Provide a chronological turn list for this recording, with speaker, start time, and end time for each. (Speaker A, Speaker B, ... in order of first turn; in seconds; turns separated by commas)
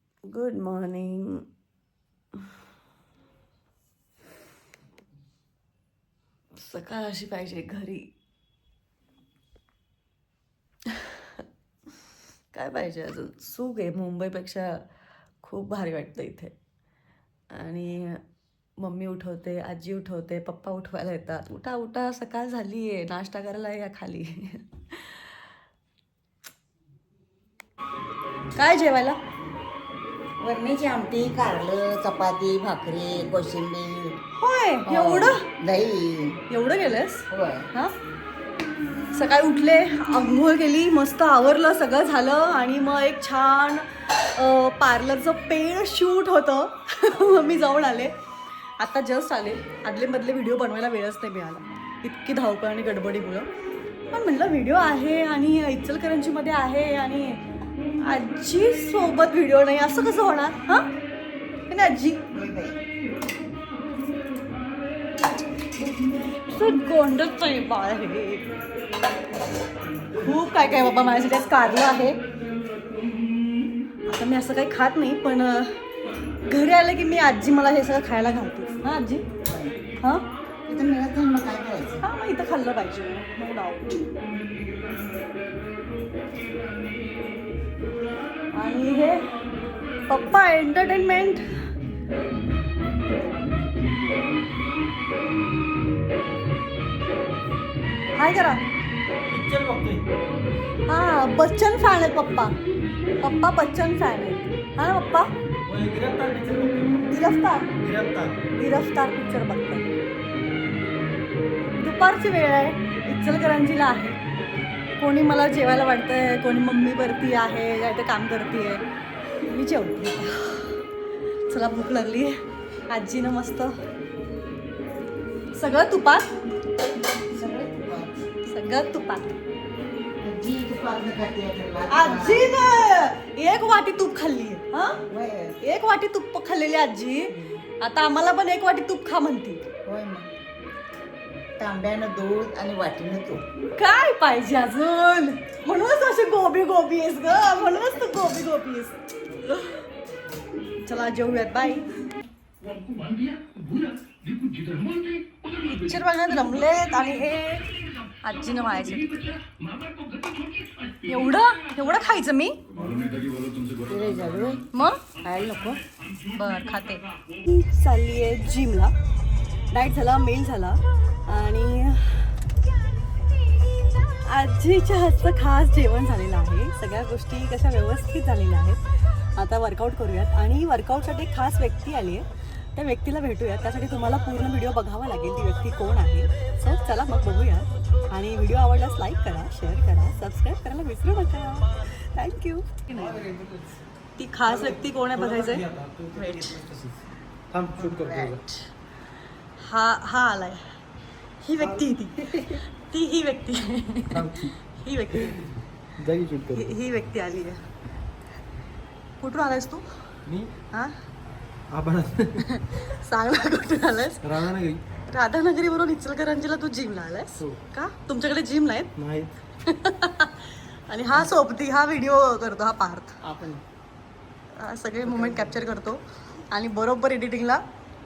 Speaker A: 0.3-1.5, Speaker A: 6.5-8.1, Speaker A: 11.0-11.4, Speaker A: 12.5-14.8, Speaker A: 15.4-16.6, Speaker A: 17.5-18.2, Speaker A: 18.8-25.2, Speaker A: 28.6-29.2, Speaker B: 30.4-34.2, Speaker A: 34.4-35.5, Speaker B: 34.9-36.4, Speaker A: 36.5-38.0, Speaker B: 37.3-37.7, Speaker A: 39.1-48.1, Speaker A: 48.8-53.5, Speaker A: 54.1-57.4, Speaker A: 58.0-60.9, Speaker A: 61.7-62.2, Speaker B: 62.3-62.8, Speaker A: 66.4-68.5, Speaker A: 70.2-72.2, Speaker A: 74.1-75.8, Speaker A: 76.5-79.3, Speaker B: 79.4-79.8, Speaker B: 80.7-82.0, Speaker A: 82.0-84.1, Speaker A: 88.5-89.2, Speaker A: 90.1-91.4, Speaker A: 98.2-98.6, Speaker C: 99.3-100.0, Speaker A: 100.9-102.5, Speaker A: 103.2-105.3, Speaker C: 105.7-107.1, Speaker A: 107.1-107.7, Speaker C: 107.8-108.4, Speaker A: 108.6-109.9, Speaker A: 111.8-114.2, Speaker A: 115.0-118.8, Speaker A: 119.4-120.8, Speaker A: 121.5-123.8, Speaker A: 125.5-126.3, Speaker B: 127.3-128.2, Speaker A: 128.4-129.4, Speaker B: 130.2-132.6, Speaker A: 131.9-135.0, Speaker B: 135.1-135.6, Speaker A: 135.6-139.6, Speaker B: 137.3-137.6, Speaker B: 139.8-140.3, Speaker B: 141.6-143.4, Speaker A: 143.8-149.8, Speaker A: 150.8-151.8, Speaker A: 155.6-157.7, Speaker A: 158.2-159.4, Speaker A: 161.1-162.6, Speaker B: 163.9-164.6, Speaker A: 164.7-165.0, Speaker B: 165.2-165.8, Speaker A: 166.3-168.9, Speaker A: 169.7-172.3, Speaker A: 174.2-193.2, Speaker C: 192.9-193.8, Speaker A: 194.2-196.6, Speaker C: 194.4-197.0, Speaker C: 197.5-198.4, Speaker B: 197.8-198.4, Speaker A: 199.6-200.6, Speaker A: 201.4-205.5, Speaker C: 204.1-204.6, Speaker C: 206.0-206.7, Speaker A: 206.5-207.6, Speaker A: 209.2-209.8, Speaker C: 210.3-210.5, Speaker C: 211.7-212.5, Speaker A: 212.4-214.3, Speaker C: 214.2-214.8, Speaker A: 215.1-218.9, Speaker C: 219.0-219.3, Speaker A: 219.6-223.2, Speaker C: 223.3-223.6, Speaker A: 224.5-227.6